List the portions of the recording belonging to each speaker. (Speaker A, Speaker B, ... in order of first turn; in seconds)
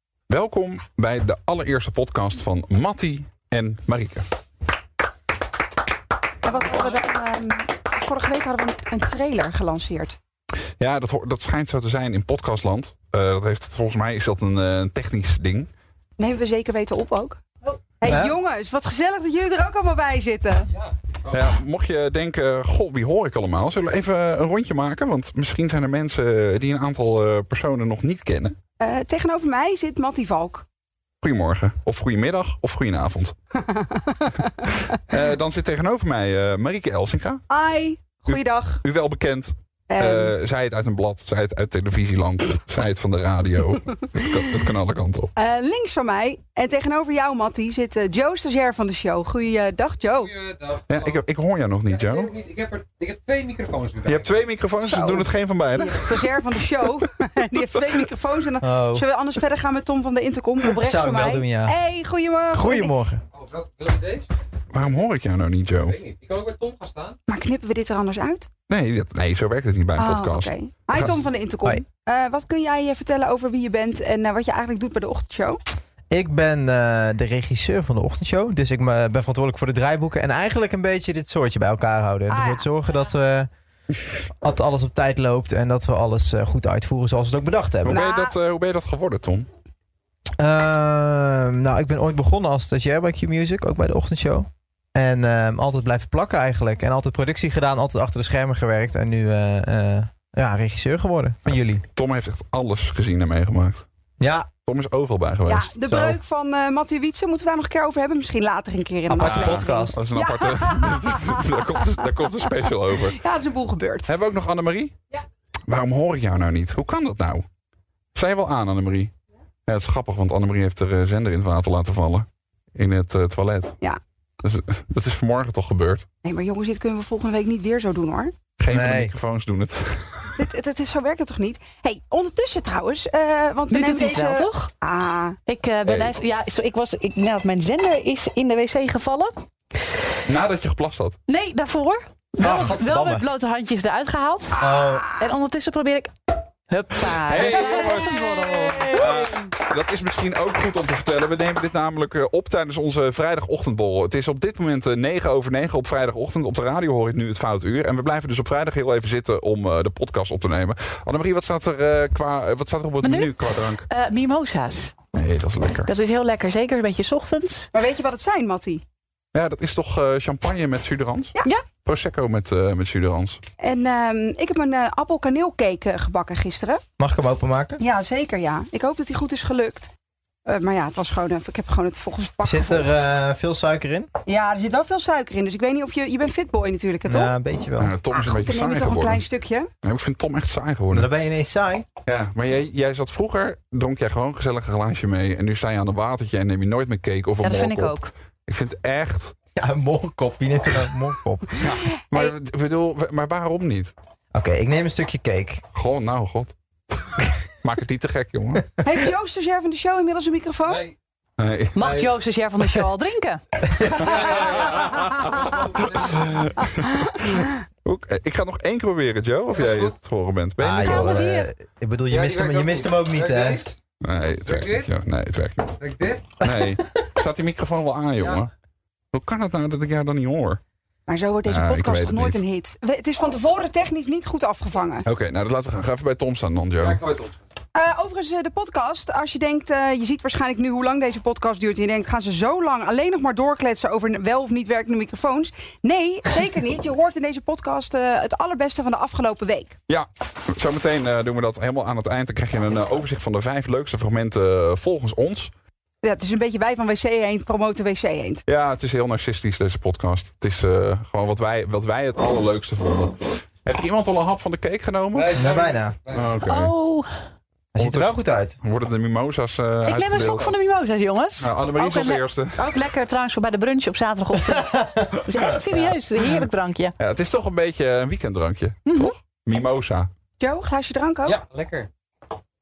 Speaker A: 0.3-4.3, 10.8-15.7, 21.3-28.6, 31.2-33.4, 34.9-37.4, 38.3-45.3, 50.9-52.3, 54.1-56.3, 64.7-66.0, 68.7-71.2, 87.9-89.5, 101.5-103.9, 104.7-105.8, 109.2-113.2, 114.1-115.0, 115.7-117.5, 118.2-119.1, 119.7-123.8, 124.4-126.1, 128.6-130.4, 135.9-136.2, 140.3-141.2, 147.2-148.3, 148.9-163.9, 165.1-165.9, 169.3-173.4, 187.8-189.2, 189.8-191.1, 192.1-198.0, 198.5-199.3, 201.6-203.9, 205.7-206.5, 207.1-208.7, 211.4-212.0, 214.7-221.2, 224.0-225.8, 226.4-228.5, 229.1-230.6, 231.5-232.4, 235.1-237.0, 249.9-255.5, 258.5-265.4, 266.1-266.7, 267.8-270.5, 271.4-272.8, 277.0-280.1
Speaker B: 6.4-10.2, 16.2-20.7, 28.8-30.6, 33.6-34.5, 37.5-38.8, 39.9-40.3, 45.4-50.3, 54.9-63.0, 67.3-68.5, 70.0-75.6, 82.3-82.7, 87.9-88.4, 105.5-112.1, 112.9-114.1, 126.2-128.3, 130.4-135.4, 144.7-145.0, 167.7-168.8, 173.6-176.8, 177.8-179.9, 180.5-182.9, 184.3-187.3, 188.1-189.7, 208.8-210.8, 214.0-215.3, 231.1-235.1, 237.8-249.8, 256.0-258.4, 280.4-281.4
Speaker C: 18.0-18.4, 58.6-59.1, 60.8-61.8, 62.5-63.2, 76.1-83.5, 84.4-88.0, 90.4-101.8, 104.2-104.5, 105.9-106.2, 109.1-110.0, 128.7-129.1, 142.4-143.2, 144.6-145.2, 177.0-177.8, 182.4-184.1, 187.1-187.9, 190.9-191.9, 199.6-201.6, 204.3-205.6, 220.6-223.7, 226.4-226.7, 265.4-266.0, 267.7-268.6, 274.5-275.1, 275.7-276.0
Speaker D: 50.2-51.2, 51.9-54.3, 63.3-64.3, 65.8-67.2, 210.7-210.9, 211.8-212.1, 214.0-216.3, 219.5-219.9, 222.1-223.8, 224.5-224.9, 225.8-226.3, 236.8-237.4, 265.1-266.3, 281.3-281.9
Speaker E: 133.7-134.7, 135.5-139.3, 141.3-146.1, 146.7-149.2, 163.0-164.9, 165.8-167.7, 197.4-198.1, 211.8-213.4, 220.8-221.5, 266.5-267.1, 269.9-276.9, 278.9-279.1